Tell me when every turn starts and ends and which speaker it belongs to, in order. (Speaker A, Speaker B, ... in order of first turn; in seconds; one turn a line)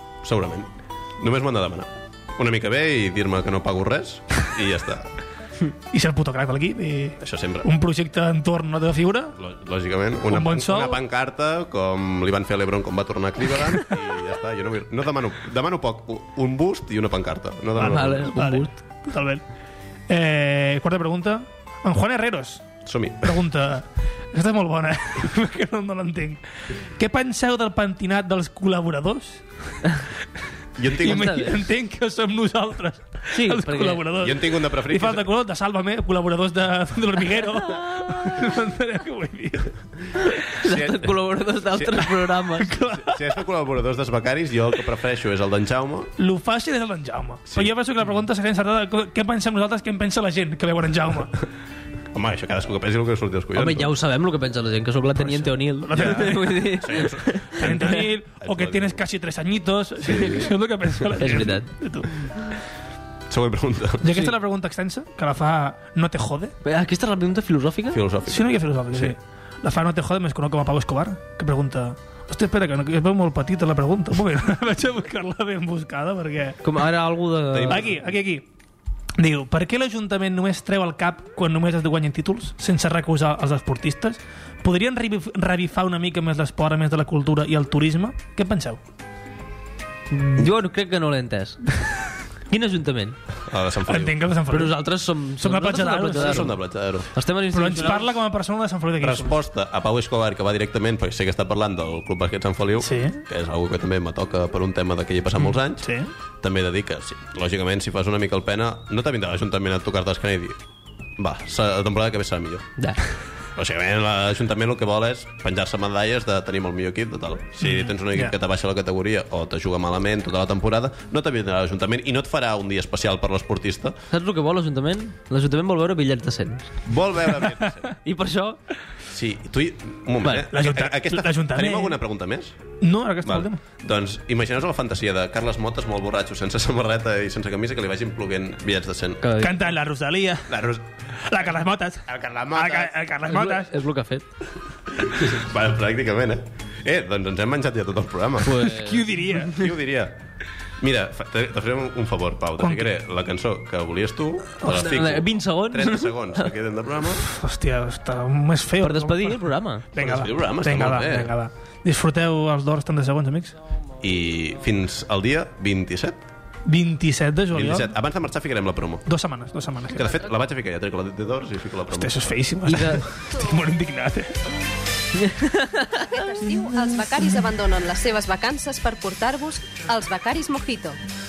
Speaker A: 0.2-5.1
Speaker B: 5.9-9.3
Speaker A: 7.2-7.7
Speaker A: 9.4-18.4
Speaker B: 10.3-11.0
Speaker C: 17.8-18.8
Speaker B: 18.3-19.4
Speaker B: 20.1-26.4
Speaker A: 22.9-23.4
Speaker B: 27.0-29.4
Speaker A: 30.8-31.4
Speaker B: 31.0-39.7
Speaker C: 31.0-31.5
Speaker C: 33.3-34.0
Speaker A: 34.2-35.3
Speaker C: 37.7-38.2
Speaker C: 40.2-42.7
Speaker A: 40.6-42.1
Speaker B: 42.6-43.2
Speaker A: 42.9-46.1
Speaker B: 46.2-51.4
Speaker A: 52.1-53.9
Speaker C: 53.5-58.0
Speaker B: 55.4-56.7
Speaker A: 56.0-59.0
Speaker B: 57.6-62.6
Speaker A: 60.0-60.5
Speaker C: 61.2-61.7
Speaker A: 63.3-64.1
Speaker B: 64.0-66.5
Speaker C: 66.6-68.0
Speaker A: 67.9-69.2
Speaker B: 68.3-76.6
Speaker C: 76.6-77.8
Speaker A: 77.5-78.0
Speaker B: 77.7-78.5
Speaker B: 79.2-88.8
Speaker C: 90.1-91.7
Speaker C: 92.5-93.2
Speaker A: 93.5-94.3
Speaker B: 93.9-94.9
Speaker C: 94.5-96.6
Speaker B: 95.4-96.5
Speaker A: 96.1-97.1
Speaker C: 97.1-98.1
Speaker B: 97.5-99.4
Speaker A: 99.0-110.6
Speaker B: 102.8-103.2
Speaker B: 105.8-106.1
Speaker A: 111.2-112.7
Speaker A: 113.5-124.0
Speaker B: 117.6-118.3
Speaker C: 124.1-126.8
Speaker A: 126.9-127.9
Speaker C: 128.0-128.6
Speaker A: 129.1-132.7
Speaker B: 130.5-132.0
Speaker B: 132.8-133.6
Speaker A: 133.2-139.2
Speaker C: 139.2-139.6
Speaker B: 139.4-140.6
Speaker A: 140.5-140.8
Speaker B: 141.2-143.8
Speaker A: 142.1-142.9
Speaker C: 143.3-144.3
Speaker A: 145.0-148.7
Speaker C: 148.4-149.5
Speaker B: 148.6-149.7
Speaker A: 149.5-150.2
Speaker A: 150.8-157.3
Speaker B: 152.6-152.9
Speaker C: 154.6-156.5
Speaker B: 157.3-163.6
Speaker C: 158.8-159.9
Speaker A: 160.0-161.3
Speaker A: 164.0-166.2
Speaker B: 166.7-167.9
Speaker A: 167.5-169.1
Speaker B: 169.1-170.1
Speaker A: 169.9-172.4
Speaker B: 171.9-174.3
Speaker C: 172.7-173.0
Speaker C: 175.1-176.0
Speaker D: 176.0-181.0